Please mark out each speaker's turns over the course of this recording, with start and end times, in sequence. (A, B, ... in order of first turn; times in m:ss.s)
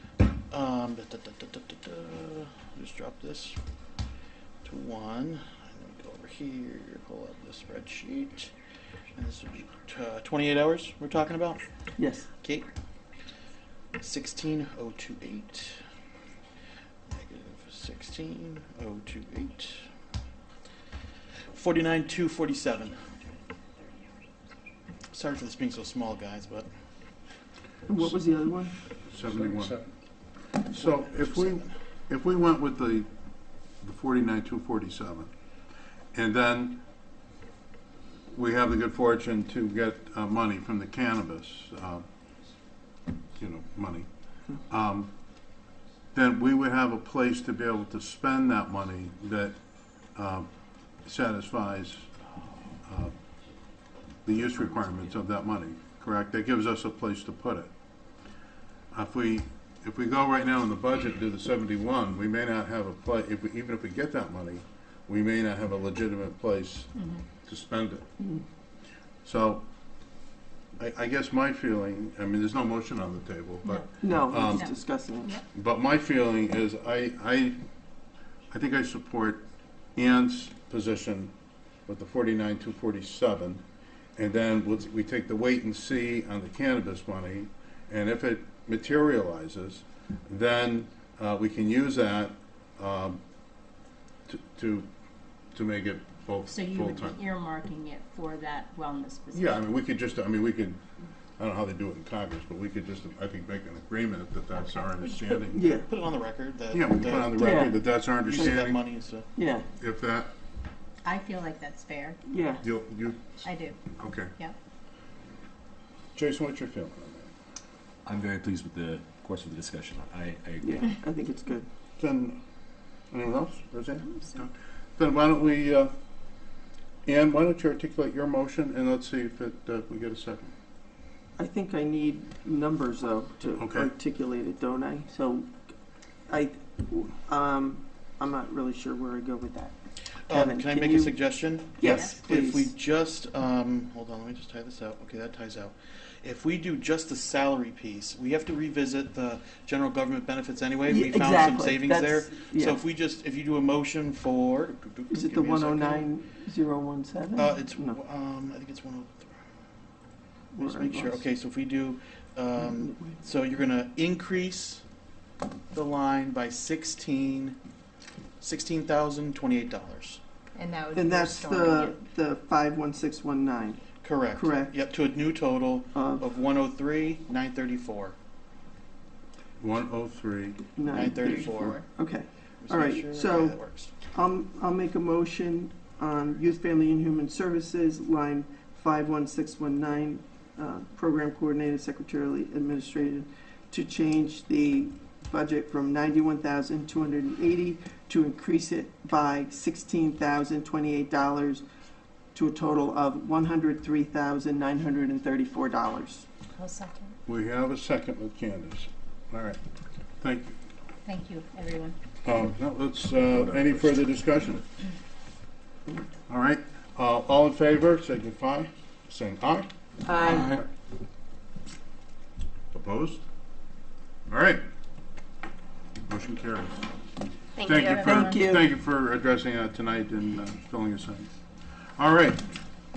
0:00.5-0:03.6 A
0:04.6-0:08.5 A
0:09.1-0:11.6 A
0:12.0-0:12.3 B
0:12.4-0:12.7 A
0:14.0-0:15.8 A
0:17.1-0:19.8 A
0:21.5-0:23.0 A
0:25.1-0:26.7 A
0:27.9-0:28.8 B
0:29.0-0:29.8 C
0:30.7-0:33.1 C
0:30.8-0:31.7 A
0:33.8-0:35.3 C
0:36.1-0:36.8 C
0:38.3-0:42.0 C
0:43.4-0:44.1 C
0:44.7-0:45.2 C
0:46.1-0:49.6 C
0:50.1-0:50.5 C
0:51.0-0:52.1 C
0:52.9-0:53.1 C
0:54.3-0:57.7 C
0:58.9-1:08.0 C
1:09.2-1:09.6 C
1:10.8-1:14.7 C
1:14.0-1:15.3 B
1:15.5-1:17.6 C
1:18.5-1:19.4 C
1:20.0-1:21.3 C
1:21.9-1:23.6 C
1:24.2-1:33.2 C
1:34.3-1:34.9 C
1:35.5-1:37.2 C
1:36.5-1:39.6 D
1:39.3-1:40.8 C
1:41.4-1:45.6 C
1:45.5-1:45.9 B
1:45.8-1:49.3 A
1:46.7-1:48.8 C
1:47.4-1:47.8 B
1:49.4-1:49.7 B
1:49.8-1:50.3 C
1:51.0-1:52.2 D
1:52.3-1:52.6 B
1:52.6-1:54.3 C
1:53.4-1:53.8 D
1:56.1-1:57.3 C
1:58.0-2:00.9 E
2:00.6-2:01.7 B
2:02.0-2:02.4 C
2:03.1-2:05.9 C
2:07.1-2:10.5 C
2:11.4-2:15.5 B
2:13.6-2:13.9 C
2:16.3-2:19.8 B
2:20.3-2:36.1 A
2:20.3-2:21.2 B
2:21.8-2:22.7 B
2:21.8-2:22.1 D
2:30.9-2:32.8 B
2:35.1-2:38.0 B
2:37.4-2:39.4 A
2:40.6-2:41.2 B
2:40.6-2:44.8 A
2:42.6-2:43.1 B
2:45.7-2:47.6 A
2:48.4-2:50.2 A
2:50.6-2:52.0 D
2:50.9-2:53.8 B
2:54.0-2:58.2 A
2:54.3-2:54.7 B
2:55.9-2:56.2 B
2:59.6-3:00.7 C
3:00.8-3:21.6 B
3:00.9-3:01.8 A
3:02.6-3:03.9 A
3:22.3-3:26.2 B
3:26.6-3:27.1 D
3:27.3-3:29.6 C
3:30.2-3:30.5 C
3:31.0-3:32.0 D
3:32.2-3:34.6 C
3:36.3-3:39.7 C
3:40.1-3:40.6 B
3:40.3-3:40.6 C
3:42.7-3:43.2 C
3:44.3-3:44.6 C
3:46.1-3:46.8 C
3:47.6-3:48.5 D
3:47.6-3:51.3 C
3:47.9-3:48.6 B
3:52.0-3:52.5 C